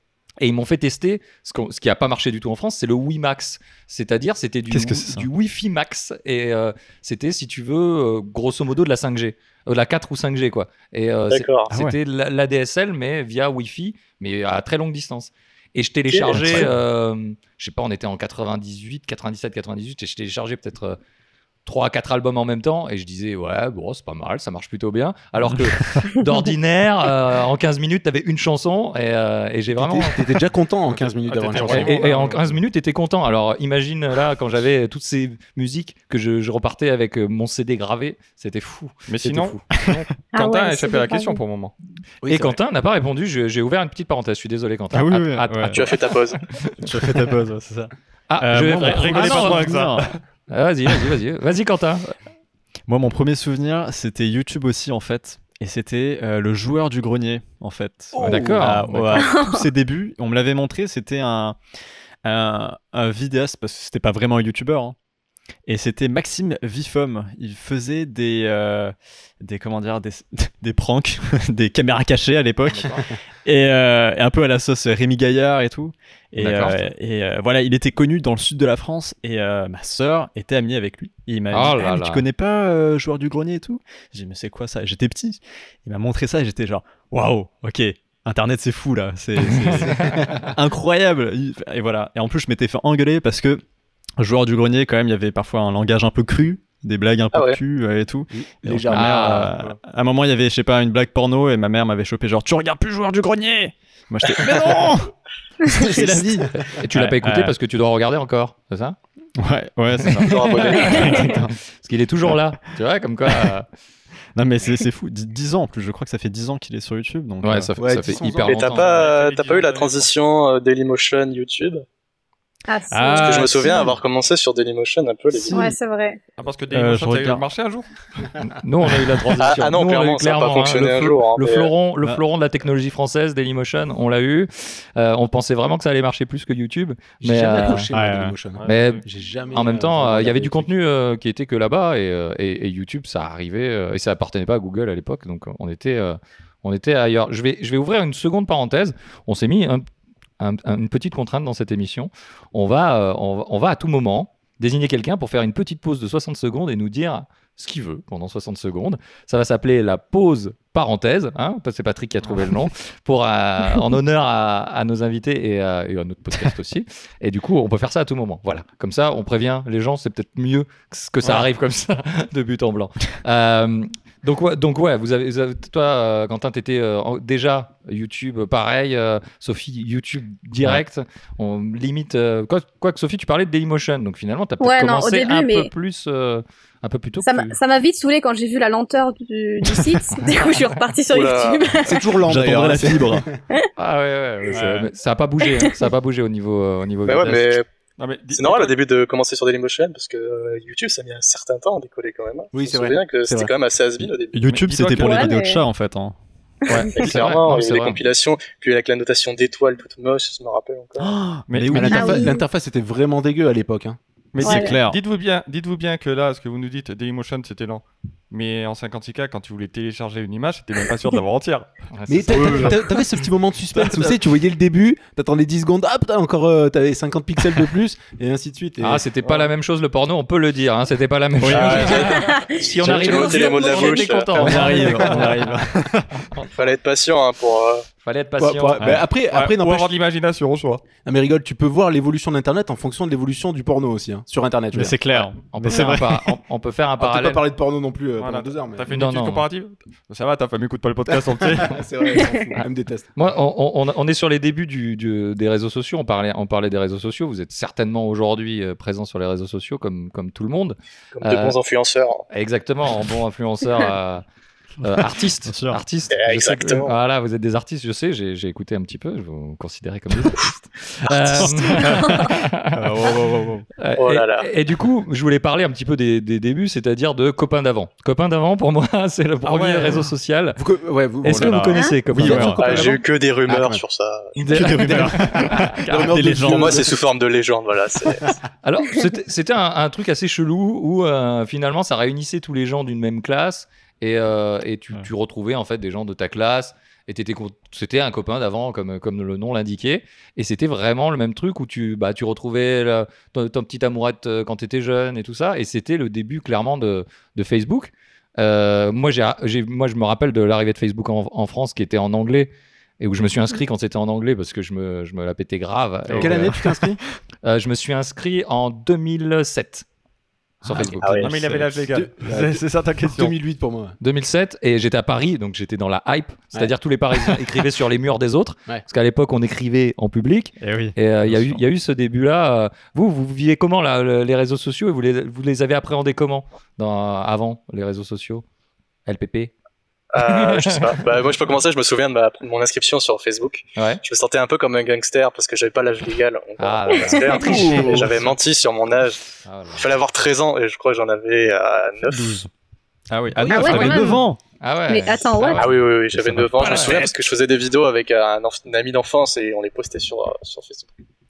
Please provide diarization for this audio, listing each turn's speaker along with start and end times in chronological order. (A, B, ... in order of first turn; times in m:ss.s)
0:00.4-0:21.0 A
0:04.7-0:05.3 B
0:11.3-0:11.7 C
0:11.7-0:12.0 B
0:16.1-0:16.7 C
0:16.3-0:16.7 B
0:21.6-0:30.2 A
0:25.6-0:26.0 B
0:29.7-0:32.0 D
0:30.9-0:32.6 E
0:31.6-0:39.9 A
0:39.1-0:41.7 E
0:40.3-0:41.4 F
0:42.2-0:42.6 D
0:42.2-0:47.1 A
0:44.9-0:45.9 B
0:45.7-0:46.4 C
0:46.8-0:50.1 B
0:48.3-0:49.9 A
0:48.8-0:50.2 E
0:50.5-0:52.1 A
0:52.9-1:01.6 B
0:58.2-0:59.3 A
0:59.1-0:59.7 F
1:02.2-1:05.0 B
1:05.6-1:33.6 B
1:12.6-1:13.0 A
1:16.4-1:16.8 A
1:21.5-1:22.2 A
1:29.4-1:30.2 A
1:29.9-1:30.5 D
1:34.2-1:45.1 B
1:37.3-1:37.6 C
1:38.3-1:39.7 D
1:38.9-1:39.5 A
1:45.6-1:47.6 B
1:45.7-1:46.5 D
1:46.7-1:49.0 A
1:49.4-1:51.5 B
1:50.0-1:53.6 A
1:50.2-1:51.3 C
1:51.0-1:51.2 F
1:53.3-1:53.5 B
1:54.3-1:57.7 B
1:57.4-1:58.9 A
1:57.8-1:58.7 D
1:58.5-2:01.8 C
1:58.7-2:00.1 E
2:02.7-2:03.9 F
2:02.9-2:03.9 B
2:03.1-2:05.7 C
2:05.3-2:05.8 B
2:05.5-2:06.2 F
2:06.4-2:07.9 E
2:06.7-2:07.4 B
2:08.4-2:17.9 A
2:08.9-2:09.2 B
2:09.4-2:11.7 C
2:17.2-2:20.7 D
2:17.9-2:18.4 B
2:18.6-2:19.0 E
2:18.6-2:29.8 A
2:30.4-3:07.6 A
3:04.6-3:05.7 F
3:07.2-3:12.1 F
3:11.1-3:11.8 C
3:11.8-3:13.3 D
3:12.2-3:13.4 B
3:13.8-3:17.6 A
3:14.5-3:14.9 B
3:15.5-3:15.7 F
3:17.0-3:17.6 C
3:18.0-3:18.8 E
3:18.3-3:24.7 C
3:22.5-3:23.5 D
3:24.3-3:26.2 B
3:24.5-3:25.4 E
3:25.0-3:25.6 F
3:26.6-3:27.0 F
3:26.7-3:28.0 A
3:26.9-3:31.2 C
3:31.0-3:32.2 B
3:31.5-3:32.1 E
3:31.7-3:34.0 D
3:31.9-3:32.4 F
3:34.3-3:41.7 E
3:34.4-3:35.0 B
3:34.4-3:34.8 F
3:41.9-3:42.7 A
3:42.1-3:49.0 D
3:42.3-3:42.8 B
3:48.8-3:55.6 A
3:51.4-3:52.1 B
3:51.5-3:55.0 C
3:52.2-3:54.2 F
3:54.3-3:56.3 B
3:56.5-3:57.8 C
3:58.0-3:59.0 A
3:58.4-4:00.0 D
3:59.3-4:00.8 E
4:01.0-4:05.0 D
4:04.7-4:06.4 B
4:05.1-4:07.4 A
4:07.0-4:08.9 D
4:08.2-4:11.8 E
4:08.9-4:09.5 A
4:11.1-4:13.1 D
4:13.1-4:21.5 A
4:21.1-4:22.2 C
4:22.3-4:24.2 A
4:24.8-4:25.8 B
4:24.8-4:33.1 A
4:26.1-4:26.9 C
4:31.4-4:33.7 B
4:33.8-4:40.6 A
4:34.0-4:34.5 C
4:39.4-4:40.1 E
4:40.6-4:43.8 D
4:41.2-4:42.6 A
4:41.2-4:42.9 B
4:42.6-4:44.8 C
4:44.3-4:46.1 A
4:44.5-4:46.9 B
4:44.7-4:47.0 D
4:46.4-4:48.4 C
4:48.6-5:16.6 A
5:16.1-5:16.9 B
5:16.1-5:17.0 D
5:17.4-5:19.8 A
5:20.6-5:21.3 A
5:20.7-5:24.0 D
5:21.0-5:21.3 C
5:21.2-5:23.4 E
5:24.0-5:38.4 A
5:30.6-5:31.6 B
5:39.0-5:39.5 A
5:40.1-5:52.4 C
5:40.2-5:41.0 A
5:43.8-5:44.0 A
5:46.6-5:48.0 A
5:47.4-5:48.2 B
5:49.4-5:49.9 A
5:52.1-5:52.5 B
5:53.1-5:54.4 B
5:53.4-5:54.3 F
5:53.5-5:55.7 A
5:54.9-5:55.7 F
5:55.5-6:01.0 C
5:56.1-5:57.1 B
5:56.6-5:57.0 A